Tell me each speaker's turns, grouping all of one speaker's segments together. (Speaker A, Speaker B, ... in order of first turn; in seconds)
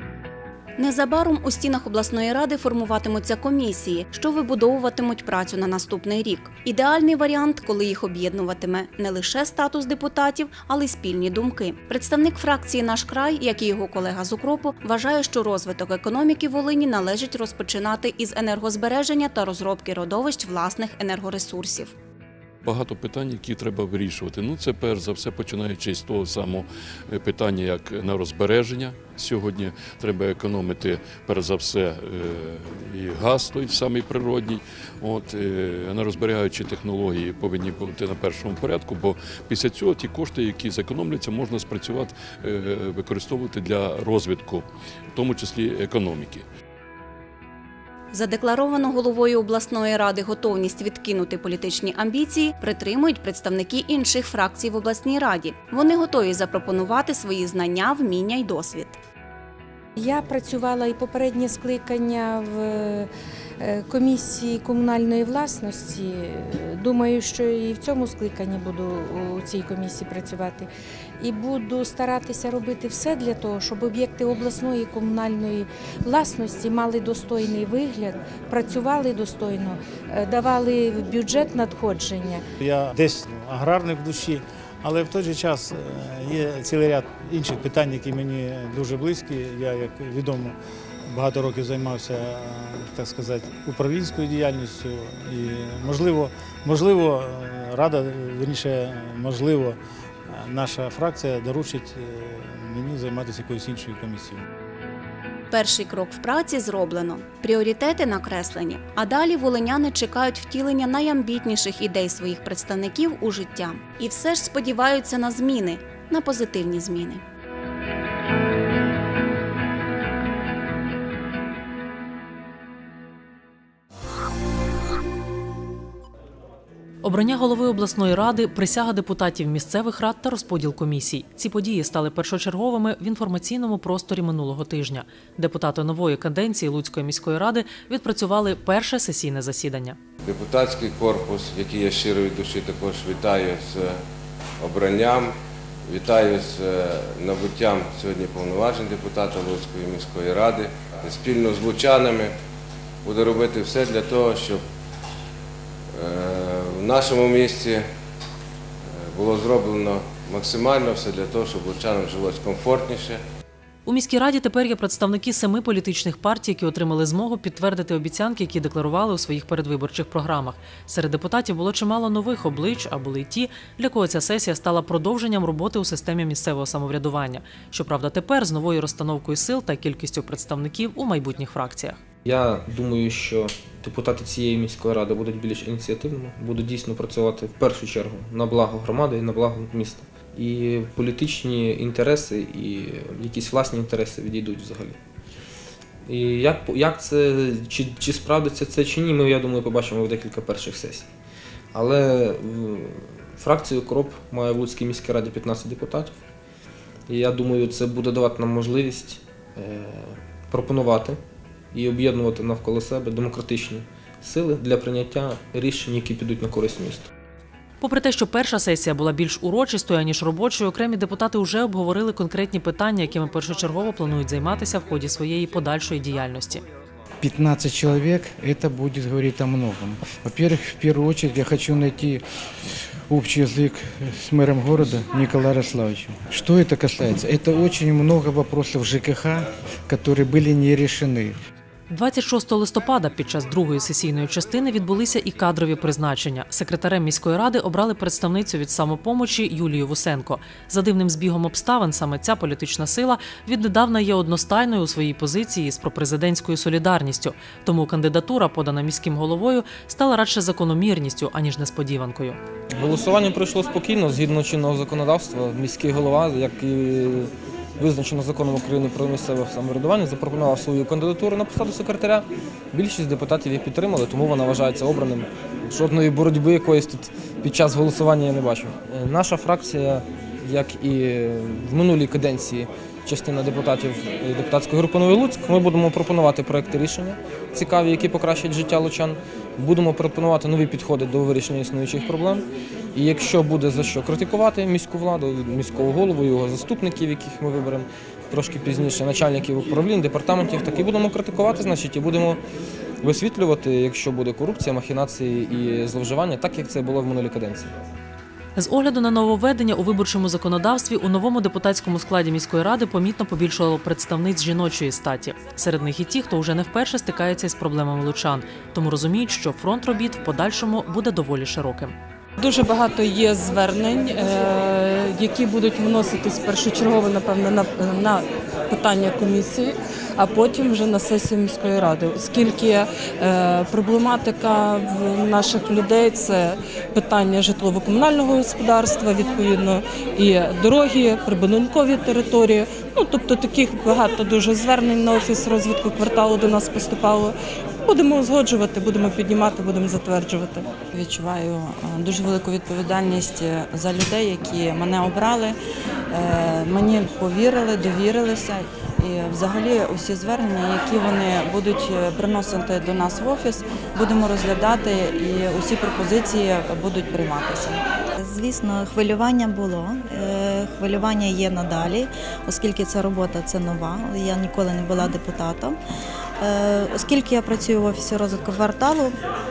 Speaker A: 0.8-21.9, 48.1-59.0, 105.5-117.2
Speaker B: 22.6-46.4
Speaker C: 60.0-82.4
Speaker D: 82.6-90.5, 91.1-99.7, 100.5-104.3
Speaker E: 127.0-140.0, 163.8-182.0, 217.8-226.6, 241.9-262.4, 308.6-321.9
Speaker F: 140.2-144.0, 144.6-145.3, 145.9-152.3, 153.0-154.6, 155.9-157.8, 158.8-163.2
Speaker G: 182.2-195.0, 196.1-201.1, 201.7-206.2, 207.1-211.2, 211.7-217.1, 262.7-302.4, 303.0-307.7
Speaker H: 227.2-232.2, 233.1-241.4
Speaker I: 322.4-350.7
Speaker J: 350.9-355.6, 356.1-367.8
Speaker K: 368.2-375.8, 376.4-379.1